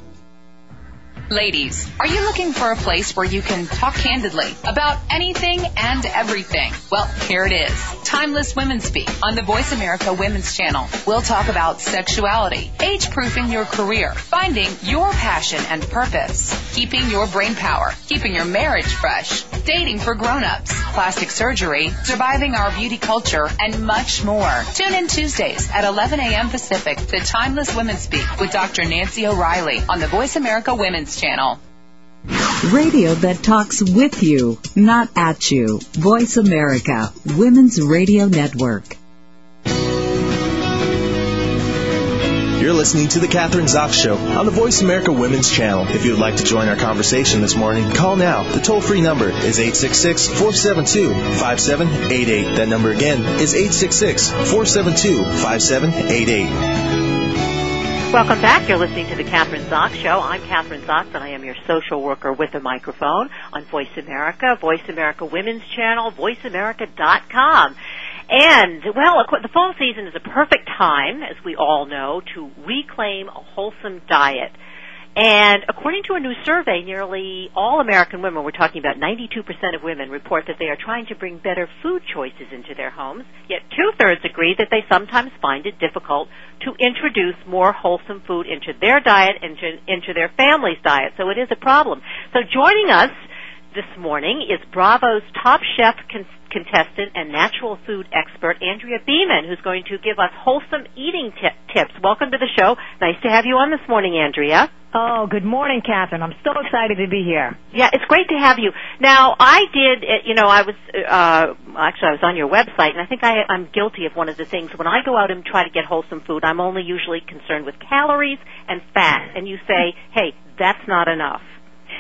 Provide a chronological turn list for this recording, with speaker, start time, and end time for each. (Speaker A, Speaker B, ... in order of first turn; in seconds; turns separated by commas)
Speaker A: 1.3-31.6, Speaker B: 32.6-39.0, Speaker C: 42.6-56.6, Speaker D: 58.1-67.7, Speaker D: 68.3-74.5, Speaker D: 75.2-93.1, Speaker D: 93.7-104.7, Speaker E: 104.9-107.6, Speaker D: 107.7-121.4